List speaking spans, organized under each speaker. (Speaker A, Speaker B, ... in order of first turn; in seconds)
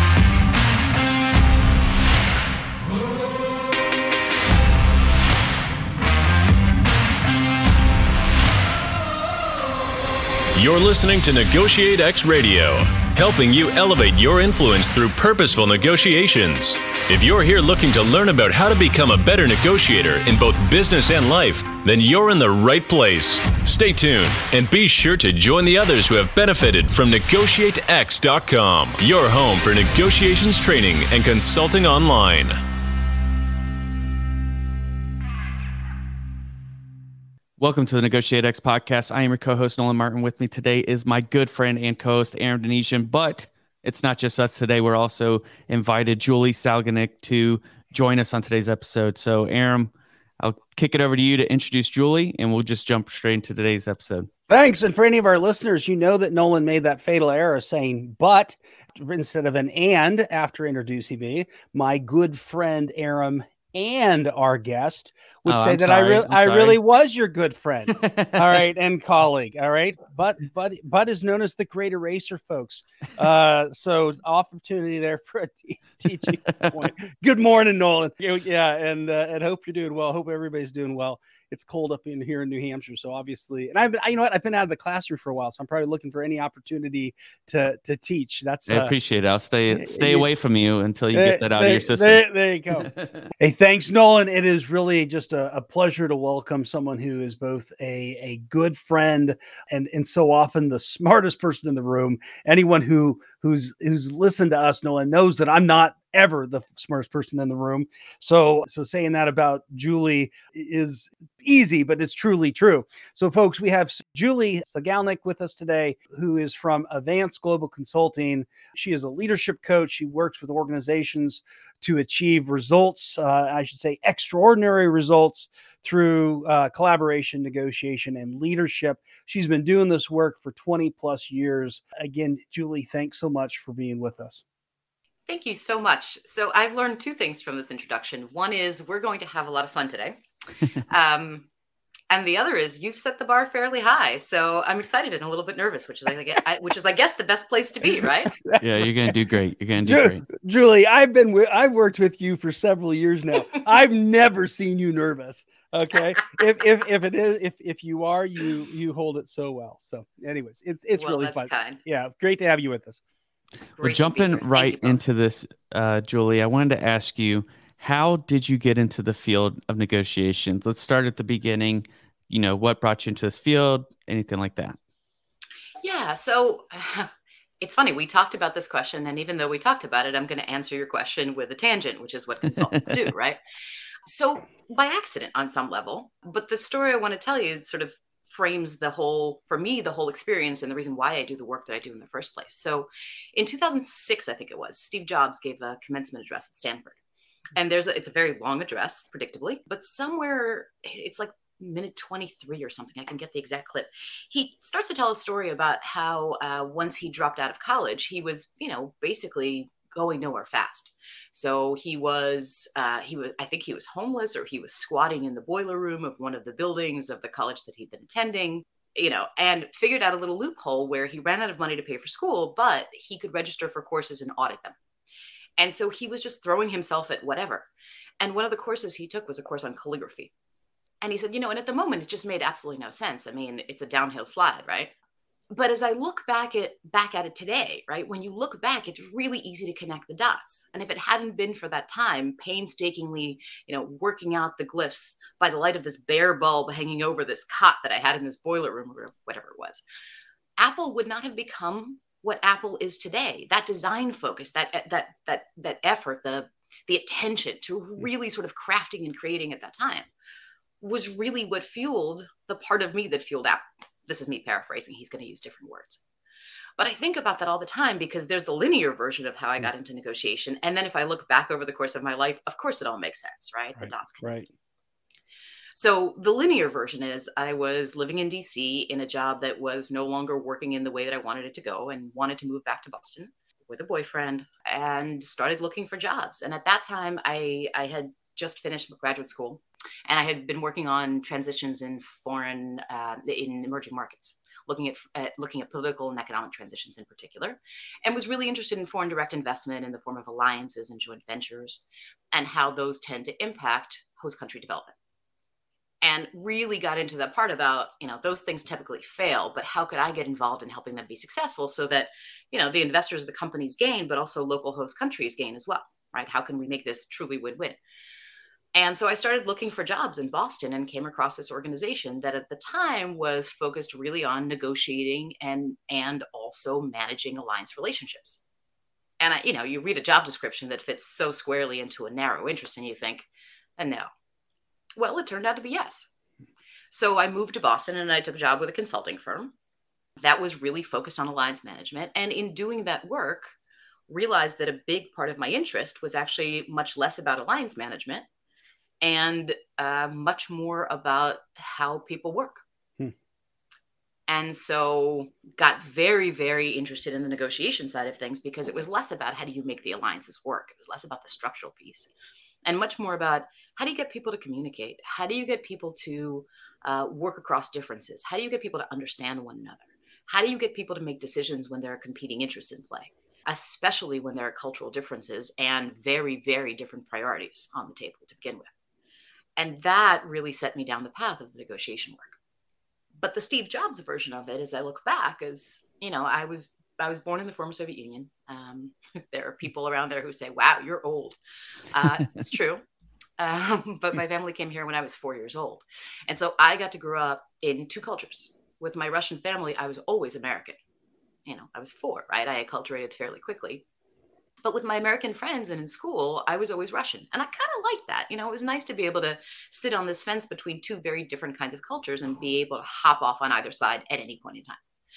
Speaker A: 10.5-32.6
Speaker B: 37.6-54.3, 65.5-66.8, 68.0-68.4, 88.7-92.2, 92.8-93.2, 148.6-150.2, 163.8-174.8
Speaker C: 54.5-89.0, 89.7-90.3, 91.1-134.4, 147.9-149.1, 149.8-163.0, 273.8-274.5
Speaker D: 135.3-140.2, 140.8-141.4, 142.1-148.3, 160.9-161.8, 163.8-165.0, 175.8-177.1, 177.6-183.4, 184.1-197.0, 197.5-224.8, 225.6-227.7, 228.2-230.3, 231.0-234.9, 235.5-249.8, 250.6-260.1, 260.8-266.0, 266.8-274.2, 275.8-304.9, 306.0-317.8, 318.7-328.4, 329.2-334.1, 335.0-336.1, 336.9-339.5, 340.2-343.5, 344.1-348.2, 349.0-352.6, 354.3-362.1, 362.6-378.7, 379.6-382.4, 383.2-391.4, 391.9-392.8, 393.4-400.8, 401.4-403.8, 404.6-414.8